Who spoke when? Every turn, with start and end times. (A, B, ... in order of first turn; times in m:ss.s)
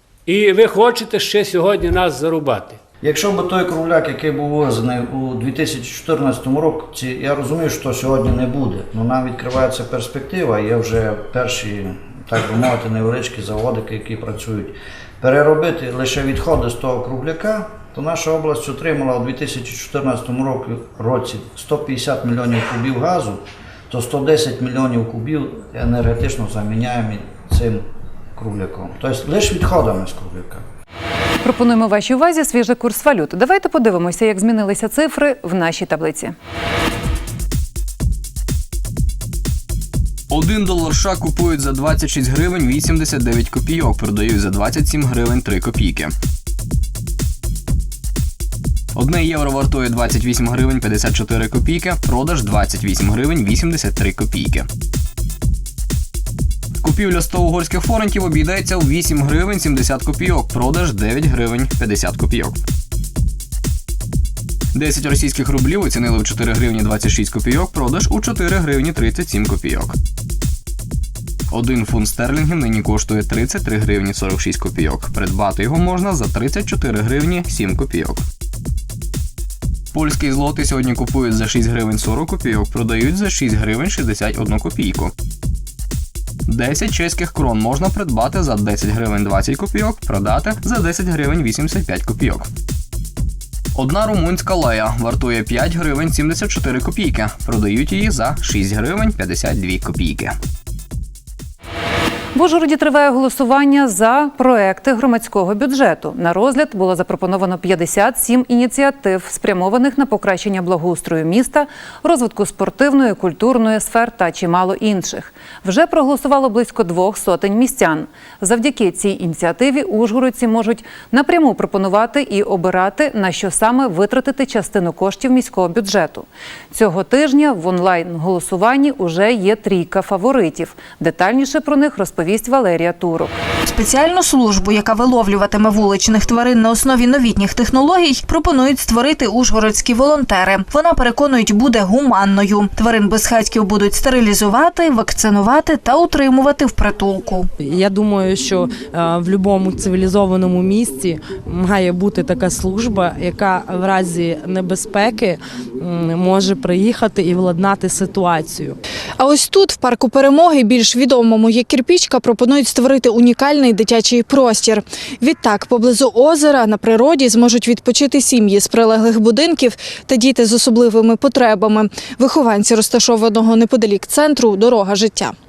0:00.3-0:02.8 A
0:03.0-0:27.8 B
0:28.4-0:30.7 B
0:31.4-0:36.4 C
0:40.3-0:46.1 D
0:49.0-0:54.7 D
0:56.8-1:02.6 D
1:04.7-1:09.9 D
1:11.5-1:18.2 D
1:19.9-1:25.1 D
1:26.5-1:32.5 D
1:33.8-1:40.4 D
1:42.4-2:13.4 C
2:13.7-2:27.5 E
2:27.7-2:38.8 F
2:39.2-2:55.3 G